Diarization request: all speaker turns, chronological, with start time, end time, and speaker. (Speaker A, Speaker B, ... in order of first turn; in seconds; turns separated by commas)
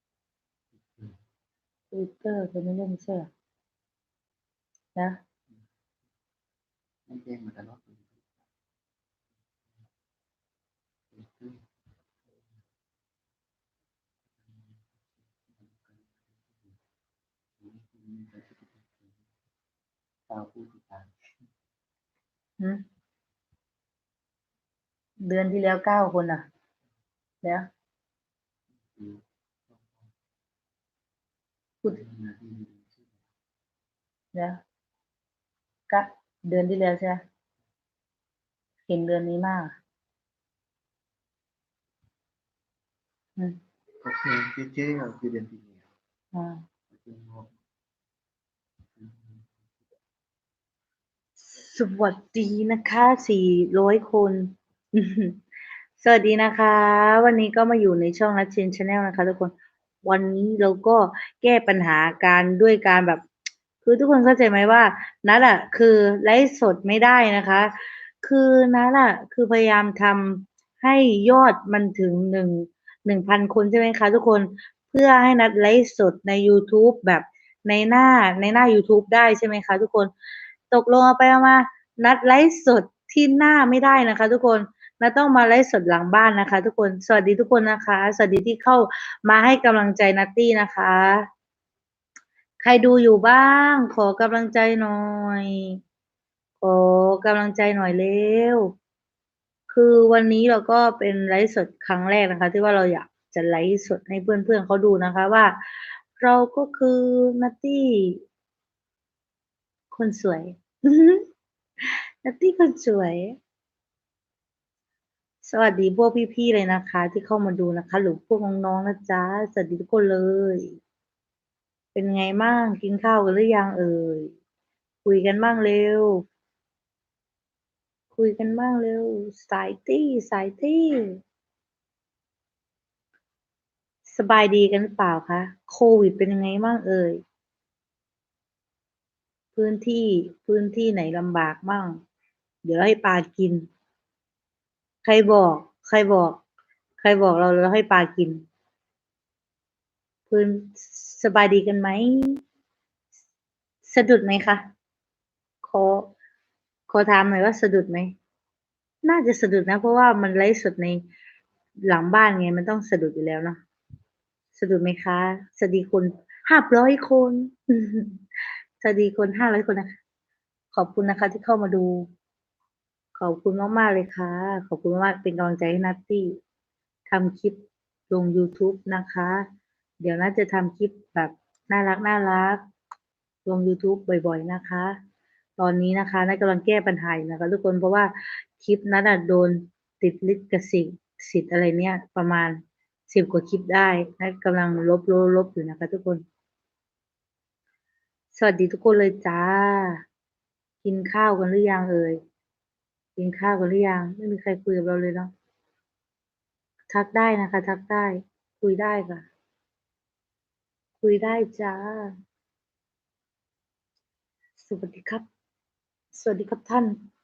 Speaker A: 0.8-1.2, Speaker B: 1.9-3.3, Speaker A: 7.1-8.4, Speaker A: 11.1-11.6, Speaker A: 14.4-16.8, Speaker A: 17.6-19.2, Speaker A: 20.3-21.1, Speaker B: 25.2-26.4, Speaker A: 28.8-30.1, Speaker A: 31.8-33.2, Speaker B: 35.9-37.2, Speaker B: 38.9-39.7, Speaker A: 44.0-45.9, Speaker B: 46.3-46.6, Speaker A: 46.9-47.5, Speaker A: 49.0-49.7, Speaker B: 51.5-55.4, Speaker B: 56.0-63.2, Speaker B: 63.8-80.1, Speaker B: 80.7-91.2, Speaker B: 92.6-95.8, Speaker B: 96.6-98.7, Speaker B: 99.7-108.2, Speaker B: 109.9-111.2, Speaker B: 111.8-113.4, Speaker B: 115.4-120.8, Speaker B: 122.0-124.3, Speaker B: 125.0-126.2, Speaker B: 128.1-131.1, Speaker B: 134.1-137.2, Speaker B: 139.6-142.0, Speaker B: 142.6-143.7, Speaker B: 145.1-146.4, Speaker B: 147.0-148.4, Speaker B: 150.3-152.4, Speaker B: 153.9-154.6, Speaker B: 155.6-156.1, Speaker B: 156.9-158.1, Speaker B: 159.0-161.0, Speaker B: 161.9-163.6, Speaker B: 164.6-168.2, Speaker B: 168.8-169.9, Speaker B: 170.7-172.1, Speaker B: 173.2-176.3, Speaker B: 177.1-177.6, Speaker B: 178.1-179.4, Speaker B: 180.0-182.6, Speaker B: 183.5-184.9, Speaker B: 185.6-196.2, Speaker B: 198.3-200.0, Speaker B: 200.8-202.2, Speaker B: 203.2-205.3, Speaker B: 206.9-209.2, Speaker B: 211.0-212.1, Speaker B: 214.6-215.2, Speaker B: 216.1-217.0